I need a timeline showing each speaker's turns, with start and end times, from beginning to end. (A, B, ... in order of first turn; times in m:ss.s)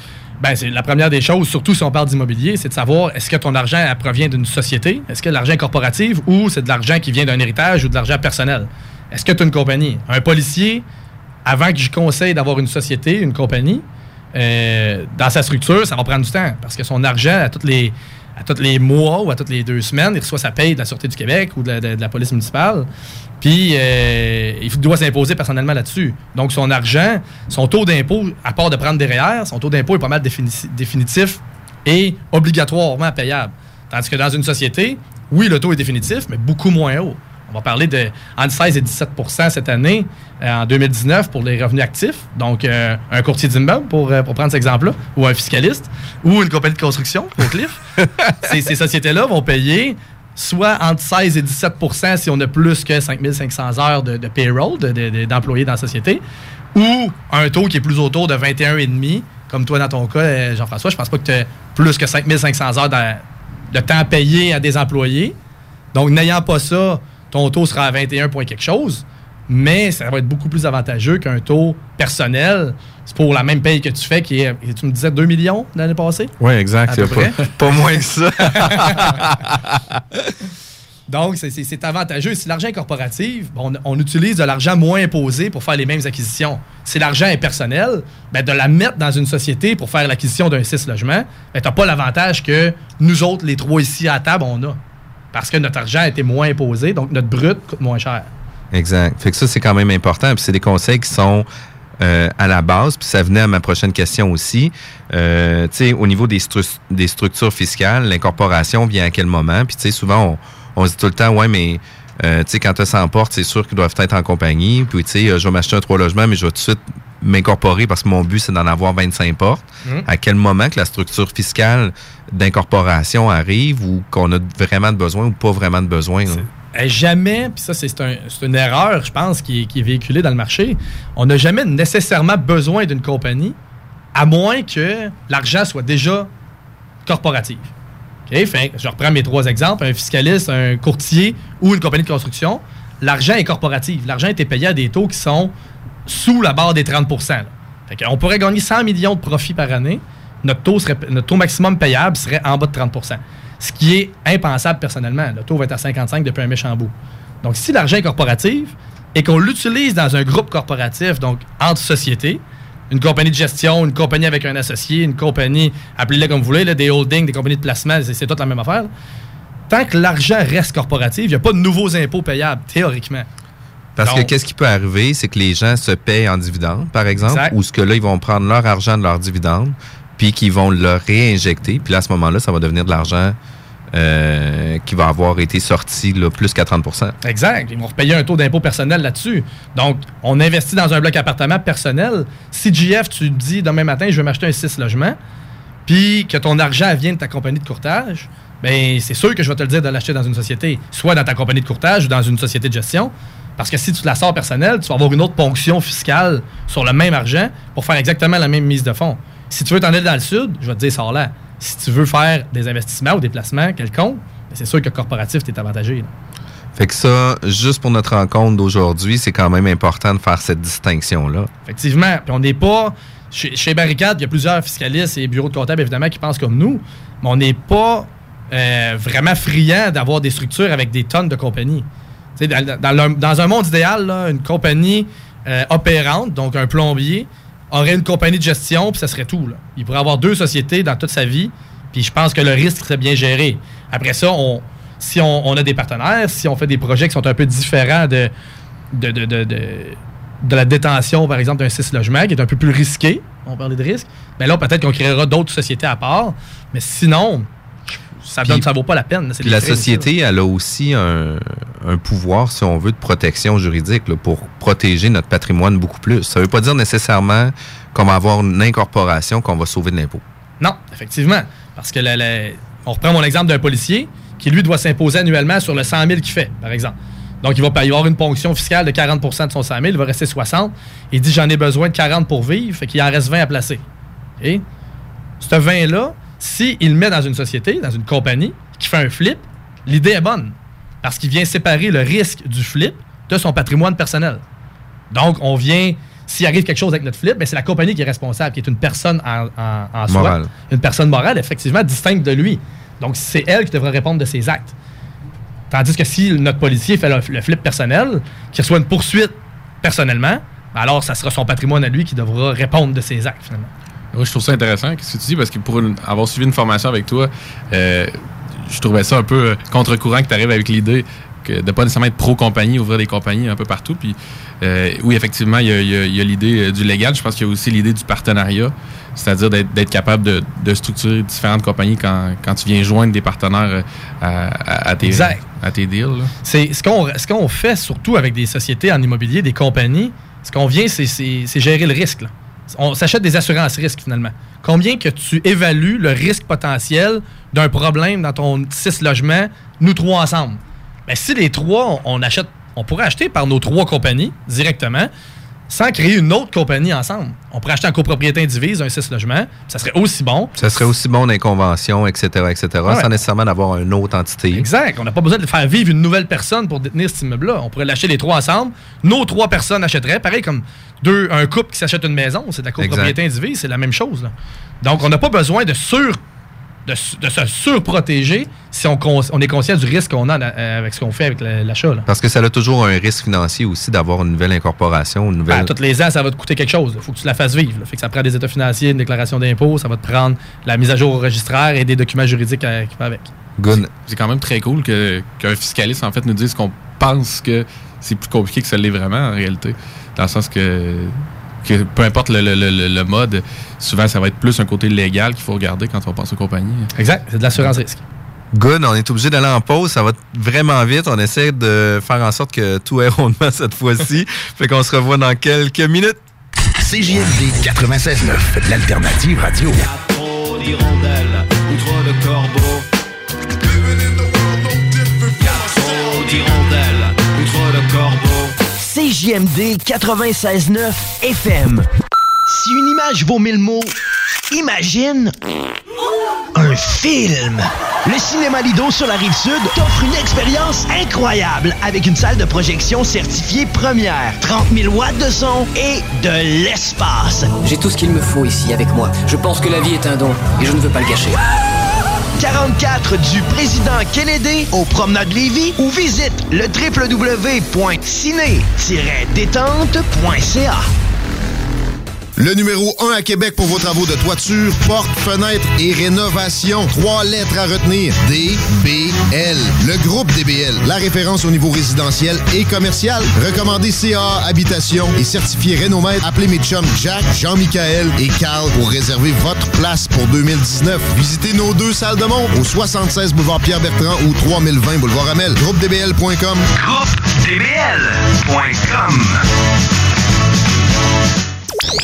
0:00.4-0:10.8 A
0:11.4-0:22.9 A
0:23.4-0:47.8 A
0:48.4-0:56.2 A
0:56.7-1:05.4 A
1:05.9-1:16.3 A
1:16.4-1:19.8 B
1:16.9-1:17.8 A
1:18.4-1:19.2 A
1:21.1-1:34.8 A
1:35.3-1:38.3 A
1:38.7-1:41.5 B
1:42.0-2:06.5 B
2:06.3-2:13.6 A
2:14.1-2:16.3 A
2:17.0-2:17.7 A
2:18.3-2:25.5 A
2:26.1-2:48.9 A
2:49.7-2:53.3 A
2:54.0-3:03.4 B
2:54.0-2:54.3 A
2:57.2-2:57.5 A
3:03.9-3:07.1 B
3:07.2-3:15.2 A
3:15.8-3:36.1 A
3:36.7-3:41.5 B
3:41.6-4:08.3 A
4:08.9-4:17.5 A
4:18.2-4:20.1 A
4:19.4-4:30.2 B
4:30.6-4:43.8 A
4:45.4-4:54.4 A
4:55.1-5:04.7 A
5:00.1-5:00.5 B
5:05.7-5:13.7 A
5:14.1-5:18.1 C
5:18.6-5:36.3 C
5:35.0-5:35.4 A
5:36.4-5:55.1 A
5:55.7-6:00.6 A
6:00.6-6:04.7 B
6:04.5-6:16.2 A
6:12.8-6:13.2 B
6:16.8-6:22.0 A
6:22.1-6:25.7 B
6:25.5-6:33.3 A
6:33.6-6:33.9 B
6:33.7-6:46.9 C
6:47.0-6:48.0 A
6:48.5-6:56.2 B
6:56.8-6:59.8 D
7:00.0-7:02.8 E
7:05.4-7:08.6 E
7:08.8-7:11.9 F
7:12.5-7:13.9 F
7:14.5-7:15.3 F
7:16.5-7:27.5 F
7:27.6-7:31.4 E
7:32.4-7:40.9 F
7:42.4-8:06.6 G
8:06.7-8:09.4 F